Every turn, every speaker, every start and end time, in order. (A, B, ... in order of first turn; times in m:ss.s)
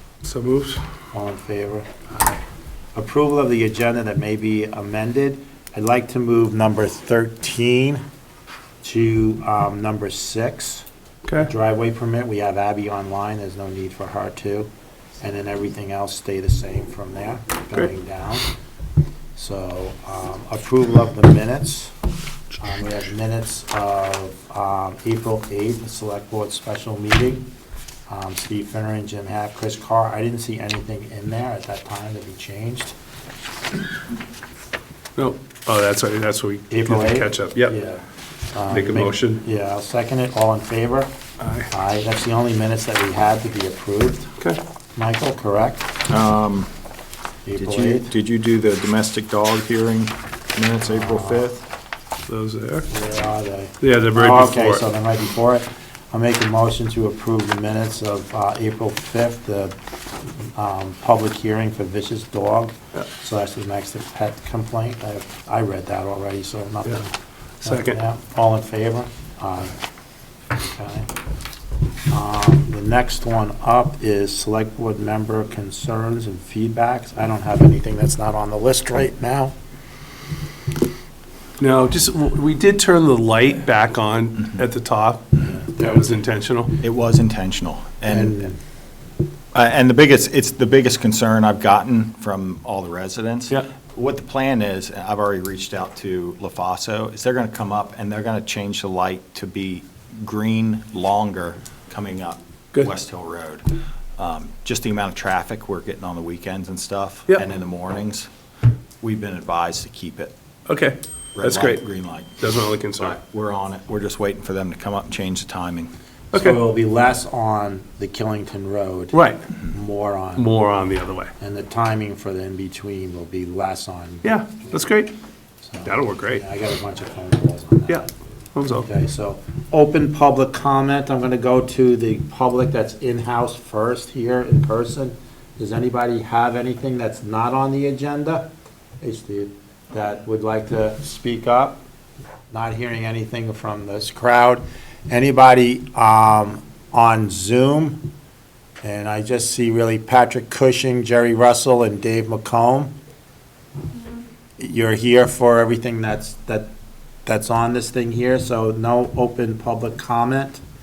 0:00.2-0:00.8 A
0:01.1-0:02.3 B
0:03.0-0:08.0 B
0:08.8-0:10.9 B
0:11.4-0:14.7 B
0:15.2-0:18.5 B
0:19.4-0:21.9 B
0:22.6-0:27.5 B
0:28.1-0:32.9 B
0:35.2-0:37.8 A
0:36.7-0:38.0 B
0:38.5-0:41.1 B
0:38.7-0:39.4 A
0:41.4-0:41.7 A
0:41.7-0:44.3 B
0:45.0-0:45.9 B
0:46.1-0:46.7 C
0:47.5-0:48.1 B
0:47.6-0:51.6 C
0:50.9-0:51.5 B
0:52.3-0:52.9 A
0:52.9-0:59.7 B
0:53.8-0:54.8 A
1:00.6-1:07.1 B
1:07.6-1:09.8 B
1:07.6-1:08.0 A
1:10.6-1:11.1 B
1:12.1-1:19.6 B
1:21.6-1:26.8 A
1:25.4-1:26.0 B
1:26.8-1:28.5 C
1:28.1-1:28.6 B
1:29.5-1:43.7 C
1:44.2-1:48.3 C
1:49.0-1:50.3 C
1:50.7-1:51.8 A
1:51.4-1:55.9 C
1:52.4-1:53.2 A
1:56.3-1:56.6 A
1:56.3-1:59.2 B
1:59.1-1:59.5 A
1:59.7-2:00.5 B
2:00.4-2:01.3 A
2:01.4-2:05.0 B
2:04.2-2:05.1 A
2:05.6-2:18.5 B
2:05.8-2:06.4 A
2:07.9-2:08.9 A
2:19.0-2:21.8 B
2:22.5-2:28.0 B
2:28.8-2:32.9 B
2:34.6-2:36.7 B
2:37.2-2:40.6 B